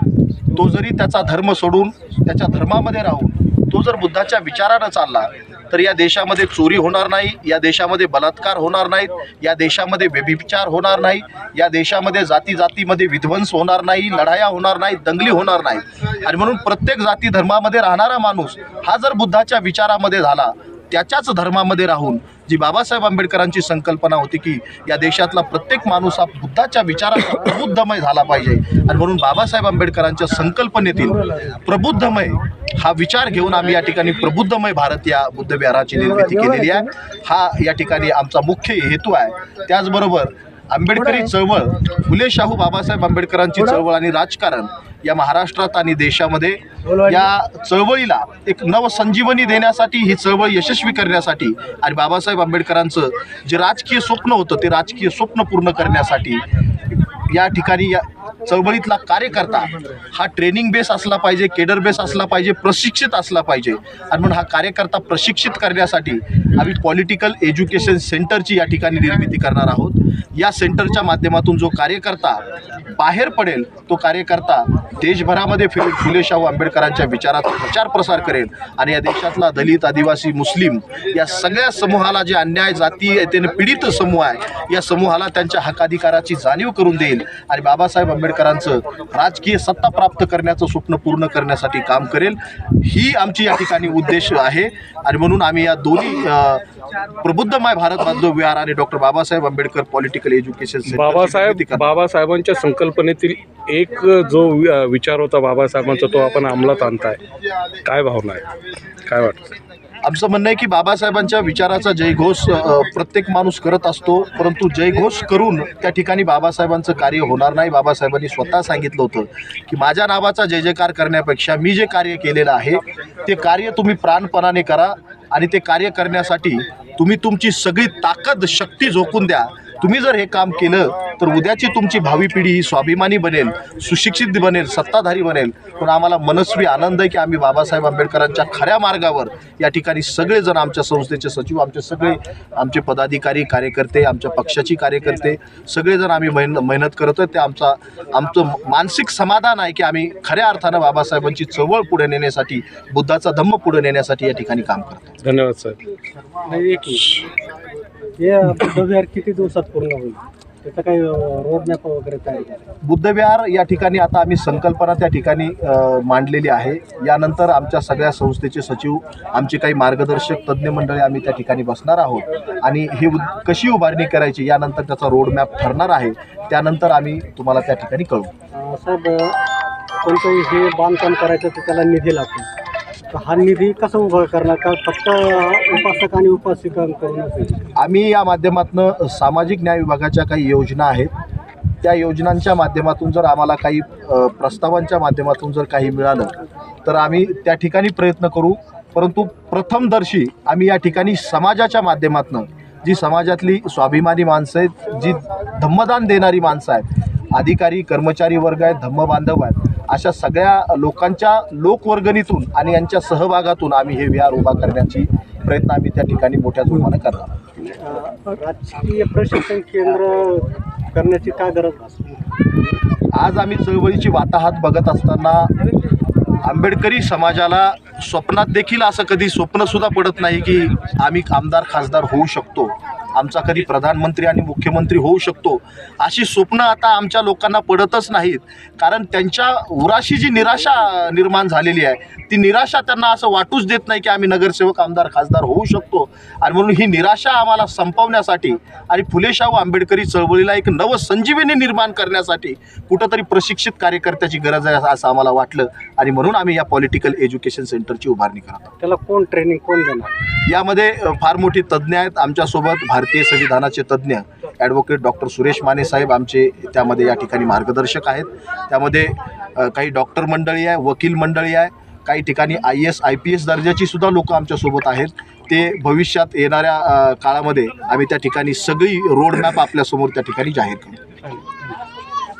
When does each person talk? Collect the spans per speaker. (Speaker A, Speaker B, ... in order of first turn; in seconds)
Speaker A: 0.5-56.4, 57.3-101.9, 110.0-155.2, 162.8-178.3, 187.8-191.1, 191.8-217.3, 223.1-225.5, 226.4-258.7, 260.4-281.0
Speaker B: 100.9-107.2, 107.8-108.5, 109.0-109.5, 155.2-155.8
Speaker C: 156.4-157.2, 158.2-162.6, 178.5-179.4, 180.0-182.5, 183.1-187.7, 217.6-222.7, 258.8-260.1